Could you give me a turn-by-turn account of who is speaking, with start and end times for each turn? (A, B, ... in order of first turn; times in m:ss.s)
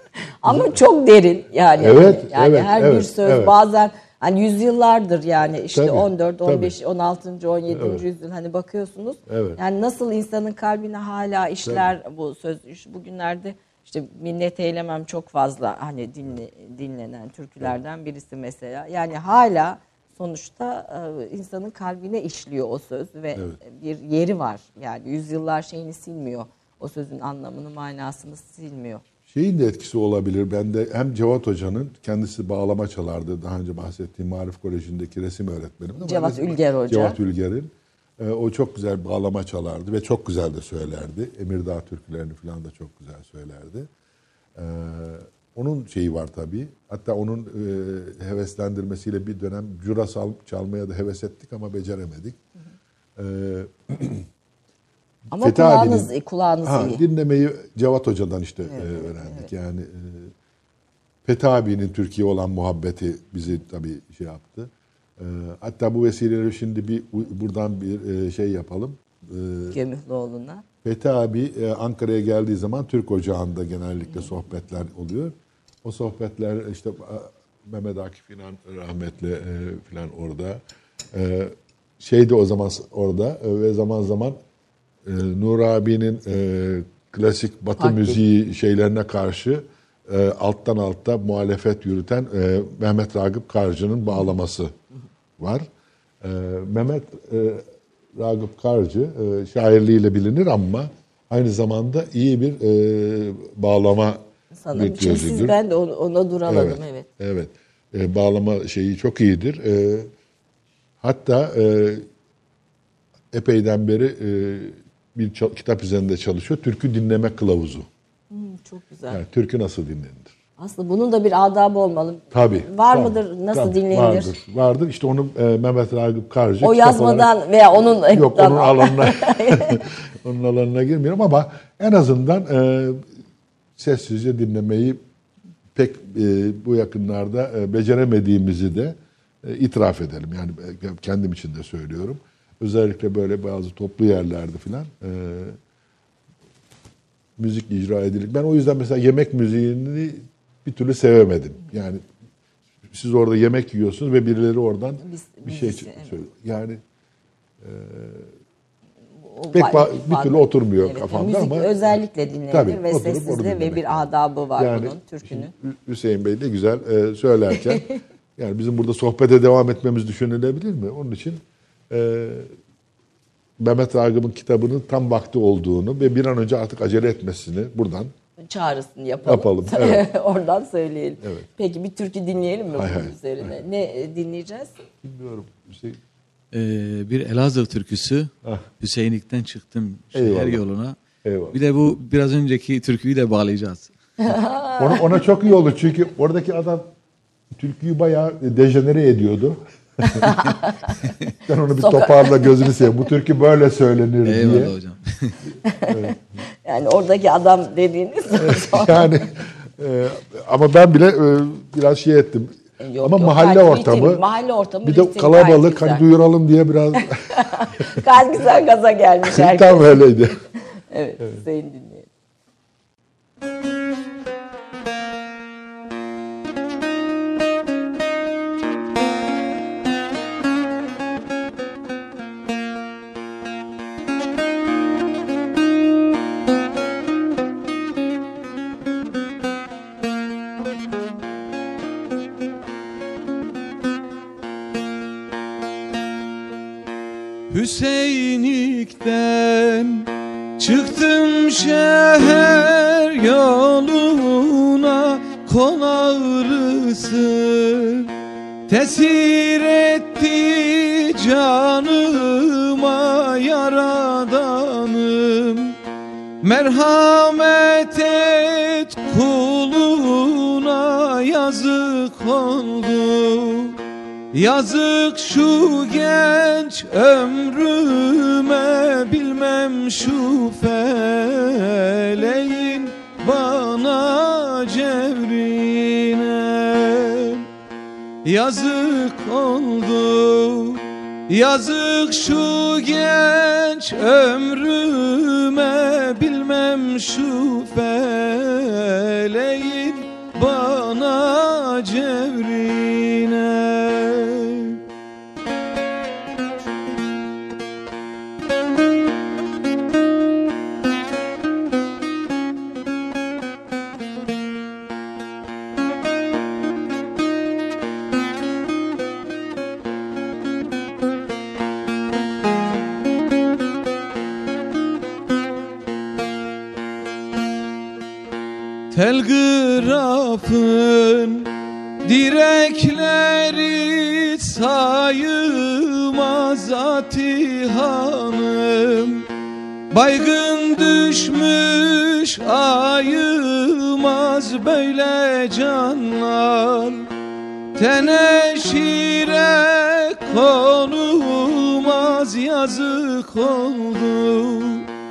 0:00.4-0:29.0 A
0:00.4-0:00.8 B
0:01.8-0:03.6 B
0:05.7-0:06.8 B
0:07.7-0:08.0 B
0:09.3-0:09.6 B
0:29.3-0:43.9 B
0:36.0-0:37.2 A
0:44.6-0:52.4 B
0:53.2-0:54.3 B
0:55.3-0:57.0 A
0:55.4-0:56.1 B
0:56.6-1:00.3 B
0:58.7-0:59.5 A
1:01.2-1:09.8 B
1:09.7-1:10.6 A
1:10.8-1:24.4 B
1:25.0-1:34.7 B
1:27.8-1:28.2 A
1:35.4-1:35.7 B
1:36.2-1:45.6 B
1:44.6-1:47.1 A
1:46.5-1:50.1 B
1:51.0-1:52.1 B
1:53.3-1:57.9 B
1:58.3-1:59.2 A
1:59.1-2:00.3 B
2:00.6-2:04.4 A
2:02.3-2:13.1 B
2:06.6-2:09.8 A
2:13.8-2:15.0 B
2:15.8-2:25.6 B
2:27.4-2:32.1 B
2:32.9-2:36.8 B
2:35.0-2:36.2 A
2:37.6-2:38.3 B
2:39.3-2:45.5 A
2:39.5-2:41.8 B
2:42.5-2:44.0 B
2:44.6-2:52.5 B
2:47.6-2:48.0 A
2:53.6-2:58.1 B
2:58.5-3:04.7 A
2:59.3-3:00.1 B
3:01.2-3:01.5 B
3:02.7-3:03.5 B
3:05.0-3:06.0 B
3:06.5-3:11.0 C
3:10.1-3:10.6 B
3:11.2-3:11.6 B
3:11.5-3:14.4 C
3:14.2-3:15.2 A
3:14.8-3:16.9 B
3:17.5-3:20.2 B
3:20.0-3:21.0 A
3:21.5-3:24.8 B
3:21.8-3:22.9 A
3:24.2-3:25.4 C
3:25.6-3:29.1 A
3:25.9-3:26.2 B
3:28.3-3:34.2 B
3:32.8-3:36.1 A
3:34.8-3:37.9 B
3:37.3-3:40.0 A
3:39.3-3:40.4 B
3:40.9-3:42.1 A
4:07.5-4:18.1 D
4:18.7-4:25.8 D
4:26.4-4:33.8 D
4:34.3-4:47.5 D
4:48.2-5:04.8 D
5:28.9-5:31.5 D
5:32.0-5:39.3 D
5:39.9-5:47.1 D
5:47.8-5:54.9 D